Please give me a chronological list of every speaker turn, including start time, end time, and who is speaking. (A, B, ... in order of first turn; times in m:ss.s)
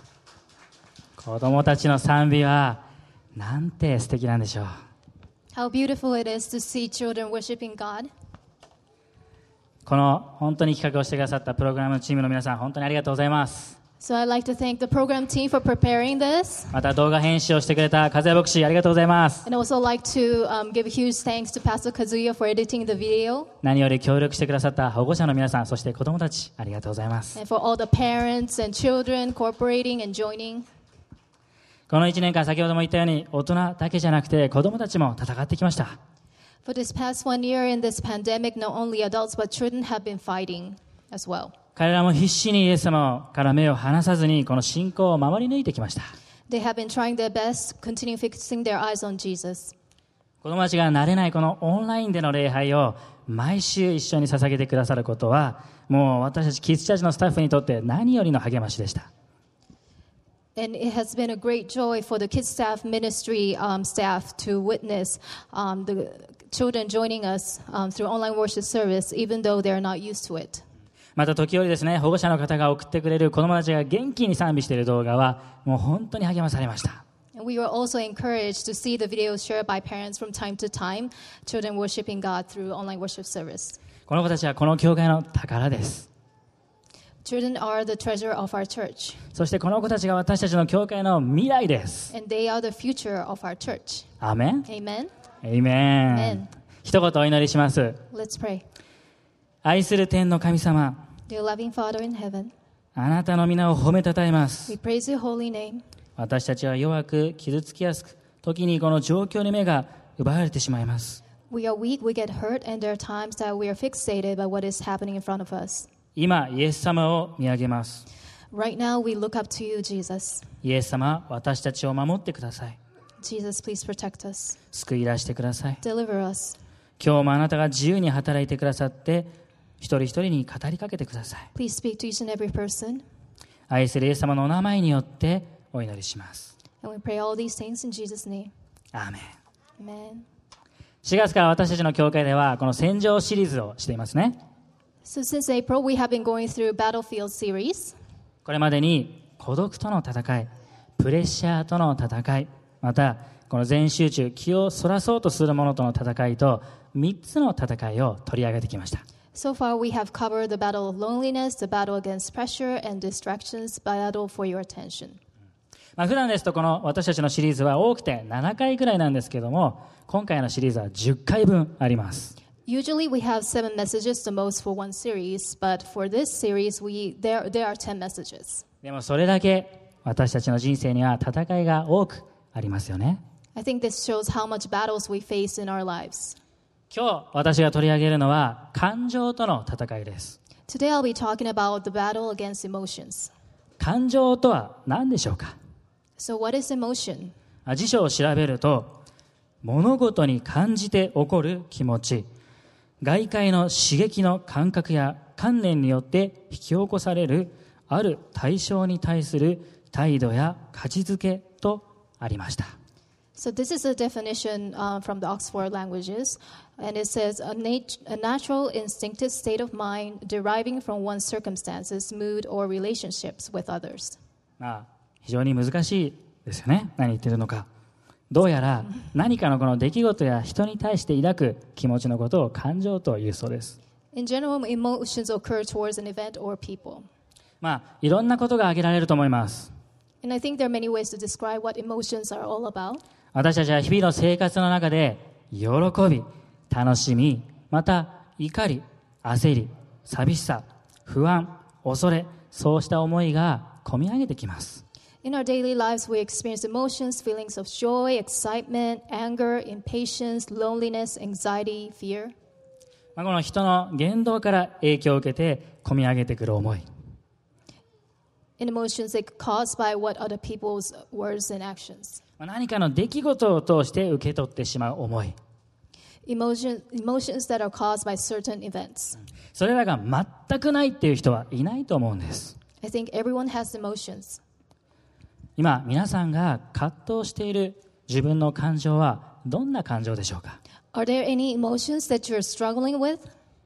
0:01.2-0:02.8 A
0:03.4-0:04.8 A
0:05.5-0:08.1 B
0:09.8-0:13.8 A
0:14.0-0:16.7 B
0:16.7-0:19.5 A
0:19.4-0:23.5 B
0:23.6-0:27.4 A
0:27.3-0:30.6 B
0:31.9-0:36.0 A
0:36.6-0:41.5 B
0:41.8-0:46.1 A
0:46.5-0:49.7 B
0:50.4-0:59.1 A
1:00.6-1:10.6 B
1:11.2-1:17.0 A
1:17.3-1:23.8 B
1:24.1-1:26.1 A
1:27.2-1:29.2 B
1:29.3-1:32.1 A
1:32.1-1:34.1 B
1:34.2-1:34.6 A
1:34.6-1:35.1 B
1:35.4-1:38.0 A
1:36.1-1:36.5 B
1:38.1-1:38.6 B
1:39.6-1:41.0 A
1:41.3-1:42.5 B
1:43.0-1:44.7 A
1:44.7-1:45.8 B
1:46.2-1:51.2 A
1:51.5-1:55.9 B
1:56.2-1:58.0 A
1:58.5-2:00.5 B
2:00.6-2:02.8 A
2:03.2-2:04.6 B
2:04.7-2:05.8 A
2:05.8-2:06.6 B
2:07.0-2:11.5 A
2:11.5-2:13.0 B
2:13.7-2:16.5 A
2:16.8-2:18.5 B
2:18.9-2:19.3 A
2:19.8-2:20.2 B
2:21.0-2:24.4 A
2:25.0-2:28.0 B
2:28.4-2:39.0 A
2:39.3-2:45.2 B
2:46.0-2:52.4 A
2:52.6-2:58.6 B
2:58.8-3:03.2 A
3:03.6-3:06.4 B
3:06.9-3:10.4 A
3:10.7-3:13.3 B
3:13.8-3:15.6 A
3:16.2-3:17.3 B
3:17.6-3:19.0 A
3:19.6-3:22.3 A
3:23.0-3:32.7 A
3:33.4-3:44.2 B
3:44.6-3:47.7 A
3:48.3-3:53.8 A
3:54.1-3:57.0 B
3:57.6-3:59.7 A
4:00.2-4:03.0 B
4:03.3-4:14.8 A
4:15.2-4:22.3 B
4:23.2-4:26.8 A
4:28.6-4:32.2 B
4:32.4-4:35.4 A
4:36.2-4:39.2 B
4:39.5-4:42.6 A
4:42.8-4:44.4 B
4:45.6-4:50.6 A
4:50.9-4:53.2 B